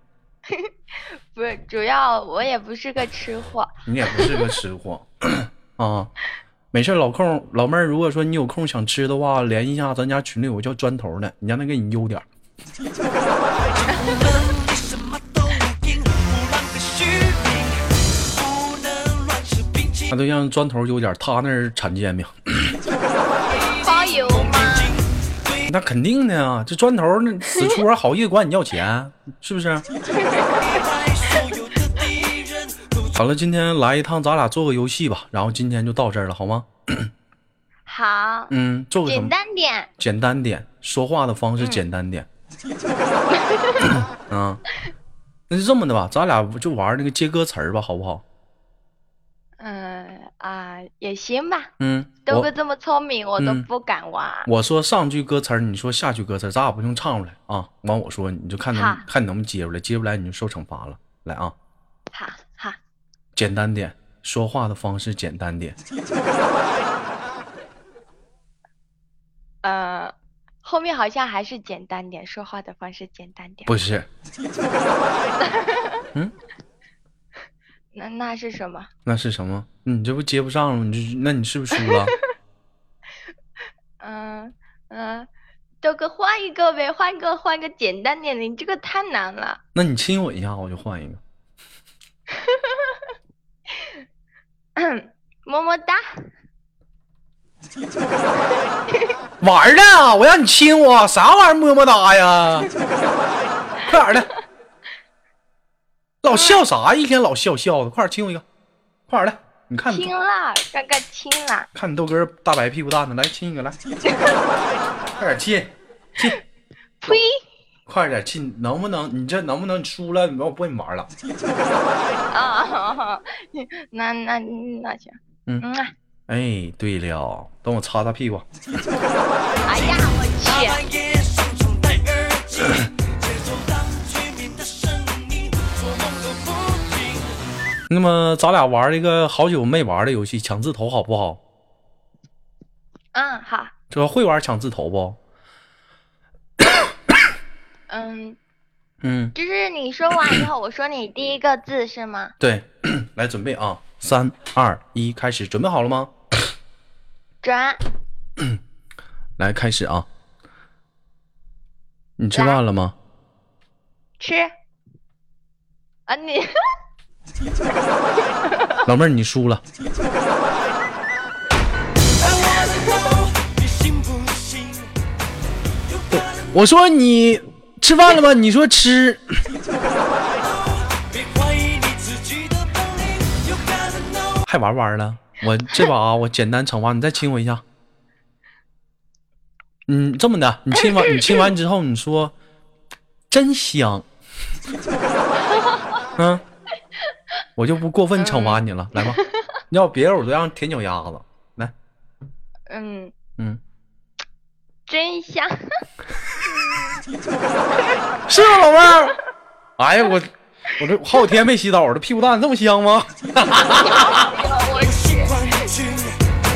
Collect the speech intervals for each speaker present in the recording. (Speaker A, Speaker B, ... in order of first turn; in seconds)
Speaker A: 0.5-4.5, 23.7-25.0, 30.2-30.8, 37.9-38.5, 39.1-39.9, 43.3-43.9, 49.6-51.7, 52.3-54.5, 58.7-59.1, 62.1-62.8, 69.6-73.7, 75.4-76.0, 77.9-78.9, 84.0-85.3, 85.8-89.6, 92.5-93.0, 94.8-96.2, 106.3-106.6, 109.9-111.7, 114.1-114.4, 117.0-117.4, 122.3-125.9, 129.7-130.8, 143.1-143.7, 147.9-148.4, 149.3-152.3, 157.4-157.8, 162.3-162.6, 164.2-164.5, 166.1-166.5, 168.3-168.8, 172.6-173.1, 195.5-195.8, 198.2-199.3, 202.7-203.1, 204.9-205.6, 213.7-215.7
Speaker B: 3.9-6.1, 6.7-12.2, 20.1-22.8, 25.7-29.9, 33.1-37.1, 38.5-39.3, 40.0-42.3, 43.8-44.6, 45.5-48.2, 51.8-52.5, 53.4-53.7, 54.5-61.5, 63.4-65.8, 73.7-74.1, 79.1-82.1, 89.8-91.2, 99.4-102.7, 103.9-104.3, 106.2-108.5, 109.1-110.1, 111.8-113.8, 115.2-116.4, 117.9-121.1, 126.3-128.5, 137.9-141.4, 143.9-145.2, 146.6-146.9, 149.0-149.3, 152.4-156.1, 159.4-160.1, 162.2-163.0, 168.8-169.6, 176.1-179.4, 184.5-187.6, 189.9-192.3, 193.3-194.1, 196.2-196.4, 197.6-201.7, 208.3-209.2, 209.8-214.4
Speaker C: 13.8-20.1, 23.8-24.9, 30.6-33.1, 130.4-137.3, 172.2-174.9, 175.9-176.5, 180.4-184.4, 214.8-216.2